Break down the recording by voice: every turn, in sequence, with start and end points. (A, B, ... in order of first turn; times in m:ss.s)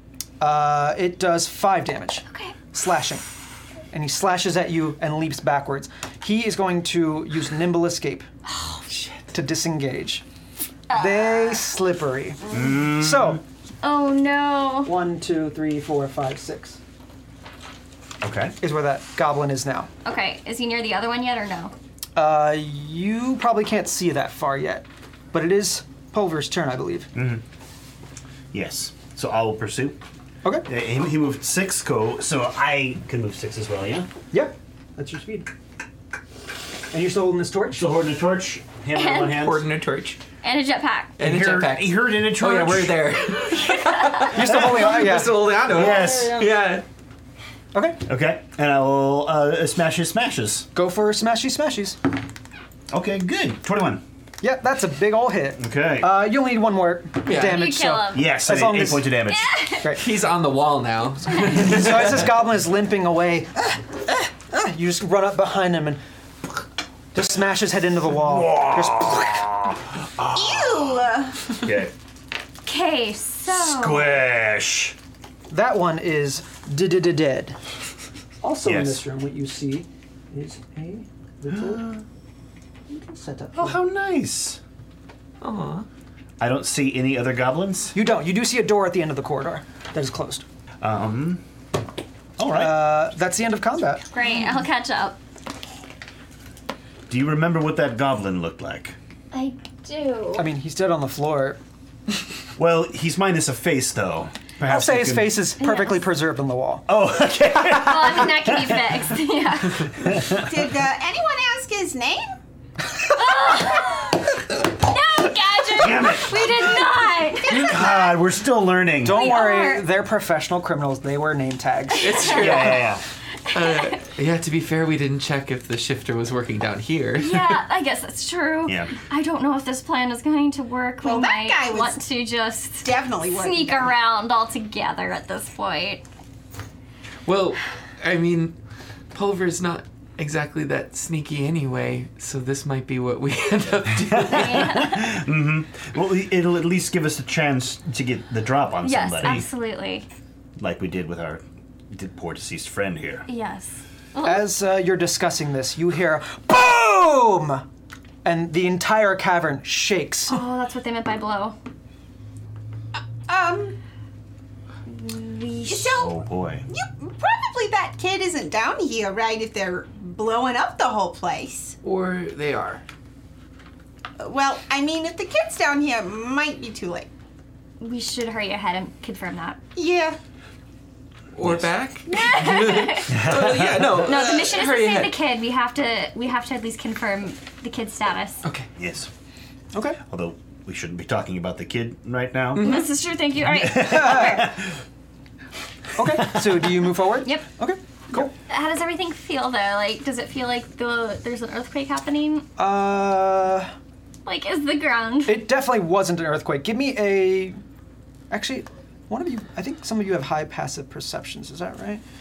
0:00.4-0:03.2 A
0:02.3-0:02.6 B
0:03.9-0:08.3 A
0:08.4-0:09.0 B
0:09.3-0:10.2 A
0:10.9-0:11.6 B
0:10.9-0:13.4 A
0:12.5-0:13.4 C
0:13.8-0:14.9 B
0:14.8-0:16.8 A
0:18.2-0:18.6 C
0:18.6-0:19.9 A
0:20.0-0:21.7 B
0:22.2-0:27.1 A
0:27.2-0:27.4 C
0:28.5-0:30.0 C
0:30.6-0:34.1 C
0:34.3-0:35.5 A
0:36.9-0:37.9 A
0:37.7-0:39.7 C
0:38.9-0:39.4 B
0:39.3-0:40.2 D
0:40.4-0:41.2 B
0:41.2-0:46.8 D
0:41.2-0:43.1 C
0:44.3-0:45.5 A
0:44.4-0:46.5 C
0:47.7-0:48.0 A
0:48.0-0:50.7 C
0:50.8-0:52.0 A
0:52.9-0:54.0 C
0:54.4-0:59.1 A
0:55.6-0:56.1 C
0:57.3-0:57.6 D
0:57.4-0:58.4 B
0:58.1-0:59.6 C
0:59.3-0:59.9 B
0:59.8-1:00.1 A
0:59.8-1:02.3 D
1:01.3-1:01.7 B
1:01.4-1:06.0 A
1:07.1-1:09.4 A
1:08.2-1:11.9 C
1:10.3-1:11.6 E
1:12.6-1:14.2 B
1:13.5-1:15.0 C
1:15.5-1:17.6 A
1:18.4-1:21.9 A
1:18.6-1:19.0 C
1:22.9-1:23.8 A
1:23.6-1:24.6 C
1:25.4-1:25.9 D
1:26.4-1:27.9 C
1:27.9-1:30.4 A
1:30.8-1:31.4 C
1:32.4-1:32.8 C
1:32.4-1:34.0 A
1:34.1-1:35.2 B
1:37.1-1:39.0 C
1:39.3-1:40.5 B
1:40.4-1:41.6 A
1:42.6-1:45.4 C
1:44.7-1:46.9 A
1:45.6-1:46.0 B
1:46.9-1:49.1 C
1:47.7-1:50.0 B
1:50.0-1:50.5 C
1:50.2-1:52.4 E
1:53.1-1:57.7 B
1:55.7-1:56.4 C
1:57.5-1:59.2 C
1:57.5-1:57.8 E
1:59.0-2:02.4 A
1:59.1-1:59.9 B
2:02.0-2:03.0 D
2:02.1-2:02.8 B
2:02.3-2:03.0 C
2:03.5-2:07.6 D
2:03.5-2:04.0 B
2:07.2-2:16.0 B
2:08.7-2:08.9 C
2:11.0-2:12.0 E
2:12.8-2:14.0 E
2:17.3-2:18.6 D
2:19.1-2:24.8 D
2:24.1-2:29.5 C
2:24.2-2:25.1 B
2:28.8-2:30.1 B
2:30.6-2:33.3 C
2:33.3-2:34.5 B
2:34.2-2:37.6 A
2:38.2-2:40.4 A
2:40.3-2:41.6 B
2:43.3-2:43.8 E
2:44.9-2:46.1 B
2:45.6-2:51.8 E
2:45.9-2:46.6 C
2:51.8-2:52.8 D
2:54.2-2:57.1 E
2:57.8-2:59.6 B
2:59.8-3:00.2 E
3:01.4-3:05.2 D
3:01.4-3:01.7 C
3:02.1-3:03.4 B
3:03.1-3:04.2 C
3:03.9-3:08.4 B
3:08.8-3:09.1 C
3:09.7-3:10.0 A
3:10.1-3:12.8 C
3:12.6-3:14.5 B
3:12.6-3:12.8 D
3:13.4-3:14.6 C
3:13.8-3:14.5 A
3:16.0-3:18.3 A
3:18.5-3:22.5 B
3:22.6-3:23.7 A
3:24.3-3:25.5 B
3:25.3-3:27.6 A
3:28.3-3:32.0 A